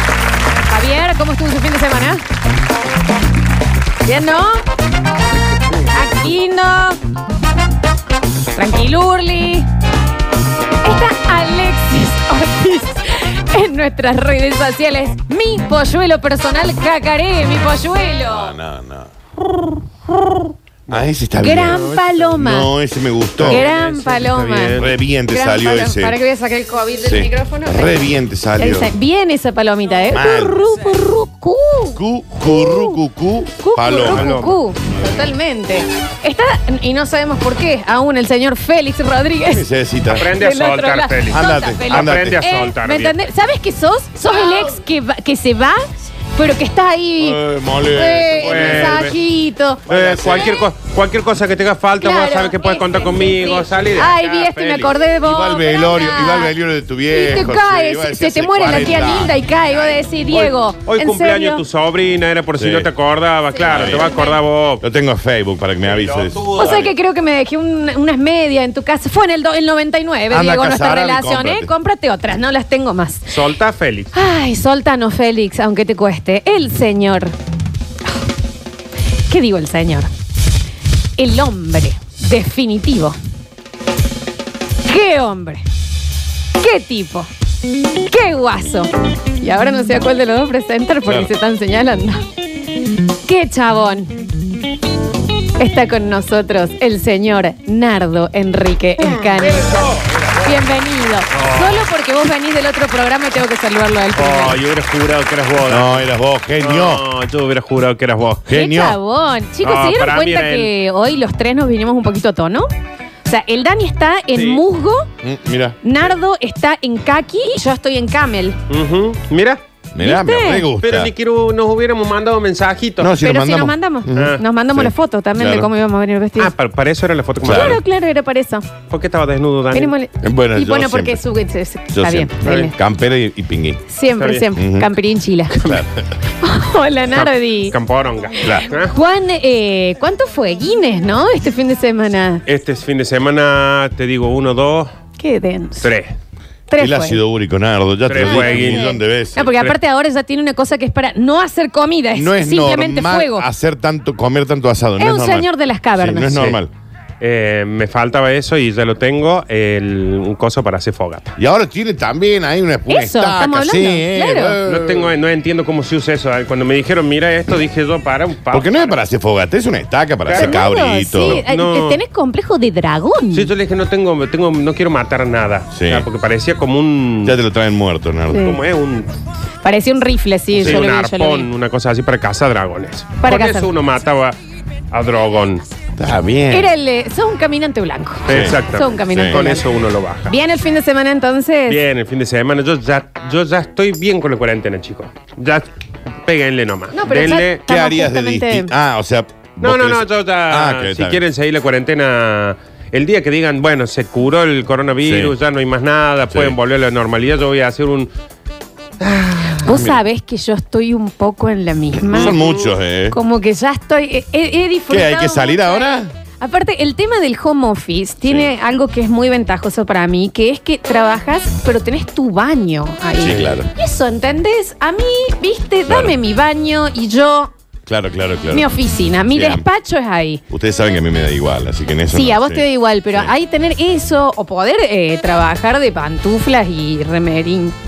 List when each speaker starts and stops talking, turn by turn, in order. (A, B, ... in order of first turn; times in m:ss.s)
0:00.6-0:02.2 A
0:04.0-0:04.6 A
0:05.8-0:07.0 A
0:08.5-0:09.7 A
0:10.8-0:18.6 A
0:18.3-0:19.1 B
0:20.9-0:23.6 B
0:21.4-0:22.7 A
0:21.6-0:22.3 C
0:23.4-0:25.0 C
0:23.4-0:28.0 A
0:24.7-0:26.2 B
0:27.0-0:28.9 B
0:28.6-0:33.0 A
0:30.1-0:30.6 B
0:31.9-0:34.4 B
0:33.6-0:39.6 A
0:34.0-0:34.6 C
0:34.9-0:35.3 B
0:39.4-0:40.3 B
0:40.1-0:43.2 C
0:40.2-0:45.8 A
0:41.3-0:42.4 B
0:46.3-0:50.3 A
0:47.2-0:49.1 B
0:48.3-0:49.2 C
0:49.9-0:50.6 B
0:49.9-0:55.0 C
0:52.0-0:56.5 A
0:55.2-1:00.0 B
0:57.1-1:01.6 A
1:00.3-1:04.8 C
1:02.6-1:02.9 B
1:03.5-1:04.4 A
1:03.7-1:04.1 B
1:04.8-1:06.8 B
1:05.8-1:06.9 C
1:06.5-1:13.4 A
1:10.3-1:11.7 B
1:13.3-1:14.1 C
1:14.1-1:17.3 A
1:19.2-1:20.1 A
1:21.2-1:23.2 A
1:24.8-1:25.6 A
1:26.6-1:27.3 A
1:28.0-1:32.2 A
1:33.2-1:34.2 A
1:35.6-1:39.8 A
1:39.2-1:39.4 C
1:39.4-1:40.6 B
1:40.4-1:44.6 A
1:41.3-1:41.9 C
1:44.1-1:46.1 C
1:45.6-1:47.0 B
1:46.6-1:48.4 C
1:48.4-1:49.0 B
1:48.5-1:52.7 A
1:49.6-1:50.7 C
1:53.2-1:55.1 A
1:54.3-1:54.6 C
1:55.2-1:55.8 B
1:55.8-1:58.6 A
1:58.7-1:59.6 C
1:59.9-2:01.1 B
2:00.0-2:00.7 A
2:00.8-2:03.1 C
2:03.0-2:05.7 B
2:03.2-2:06.5 A
2:04.1-2:04.4 C
2:06.4-2:07.8 C
2:07.4-2:07.8 B
2:07.4-2:08.7 A
2:08.9-2:09.9 C
2:09.7-2:12.8 A
2:10.2-2:11.2 B
2:11.9-2:13.8 B
2:12.4-2:12.7 C
2:13.9-2:15.5 A
2:14.2-2:14.5 C
2:14.5-2:14.9 B
2:15.5-2:16.0 B
2:15.6-2:15.8 C
2:16.4-2:17.8 A
2:17.1-2:18.9 C
2:18.7-2:22.4 A
2:22.4-2:24.9 C
2:25.2-2:25.9 A
2:25.8-2:26.1 C
2:26.7-2:27.2 A
2:26.8-2:29.5 B
2:28.0-2:29.8 C
2:28.1-2:33.5 A
2:32.1-2:36.7 B
2:35.0-2:36.6 A
2:37.2-2:41.3 C
2:41.4-2:45.1 B
2:42.9-2:44.6 A
2:44.6-2:49.0 C
2:48.5-2:51.4 B
2:50.2-2:50.5 C
2:50.3-2:53.5 A
2:51.2-2:52.0 C
2:53.3-2:57.4 C
2:55.7-2:56.0 B
2:57.2-2:58.5 B
2:58.3-2:58.6 A
2:58.4-2:59.1 C
2:59.6-3:01.5 A
3:00.5-3:04.4 C
3:03.2-3:03.7 A
3:04.9-3:05.6 C
3:06.0-3:06.7 B
3:06.5-3:09.6 A
3:08.3-3:10.3 C
3:08.3-3:09.4 B
3:10.3-3:11.8 A
3:11.7-3:15.7 C
3:16.2-3:17.6 C
3:16.9-3:18.7 A
3:17.6-3:21.2 B
3:19.6-3:28.1 C
3:25.0-3:25.3 B
3:29.0-3:29.8 C
3:29.6-3:32.4 A
3:29.6-3:30.0 B
3:32.1-3:33.2 B
3:32.1-3:32.7 C
3:33.1-3:47.5 A
3:34.9-3:36.1 B
3:38.2-3:38.5 B
3:43.2-3:43.7 B
3:45.9-3:46.2 B
3:47.8-3:48.7 B
3:48.5-3:50.4 A
3:49.3-3:49.6 B
3:50.5-3:53.3 B
3:52.1-3:57.8 A